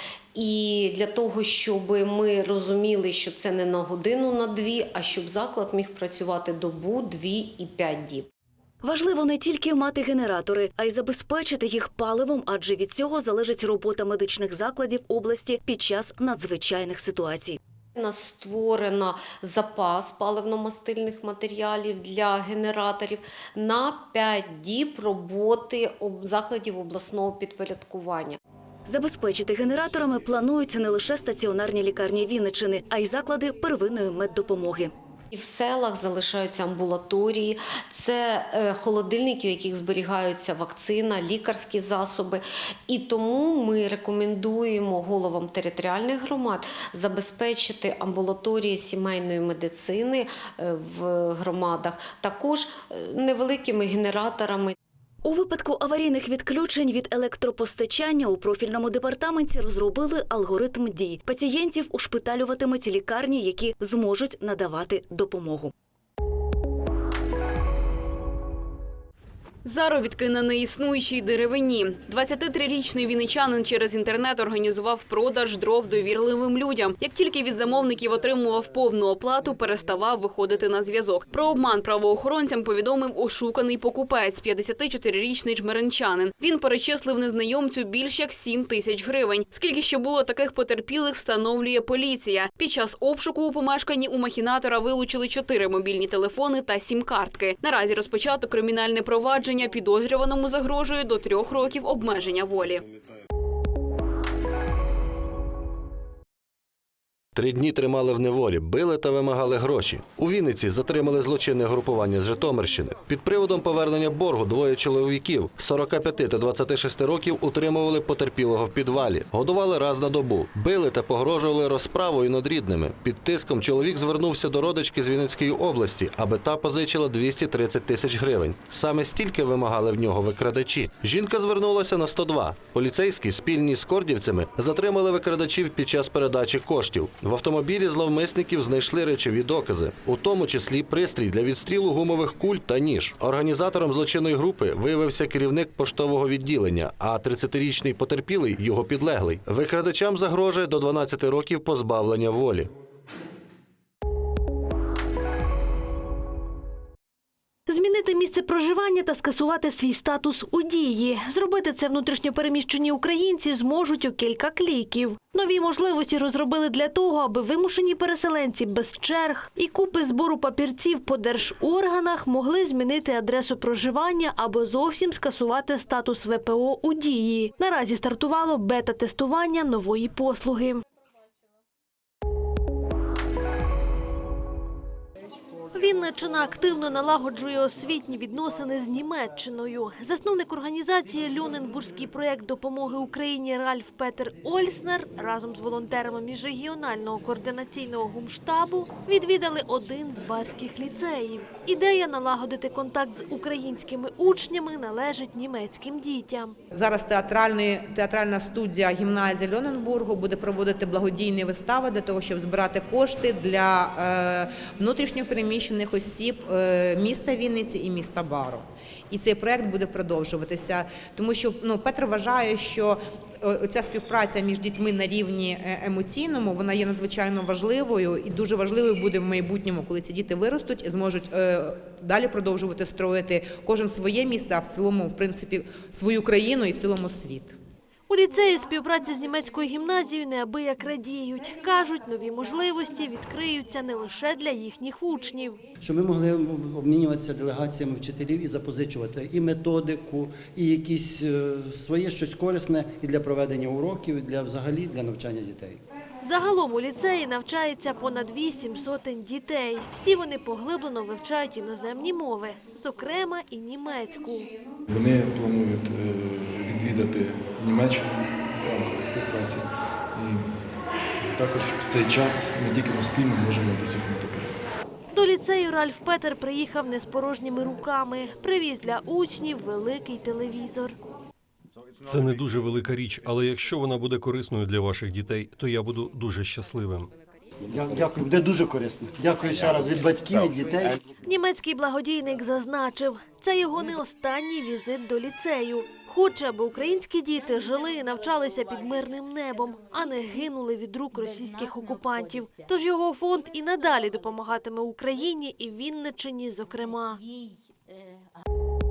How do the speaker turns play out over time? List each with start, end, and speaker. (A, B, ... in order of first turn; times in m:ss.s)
0:00.4-0:08.3 A
0:08.8-0:17.6 B
0:18.0-0:28.4 A
0:28.9-0:34.9 B
0:35.3-0:54.8 A
0:55.2-1:05.7 B
1:09.6-1:42.8 C
1:47.4-2:32.7 D
2:37.7-3:00.8 E
3:05.7-3:26.6 E
3:26.7-3:57.6 F
3:58.1-4:05.6 E
4:05.8-4:15.8 G
4:16.2-4:24.5 E
4:24.9-4:34.6 H
4:35.1-4:41.0 E
4:42.1-4:47.1 I
4:47.8-4:50.9 G
4:51.2-5:07.2 E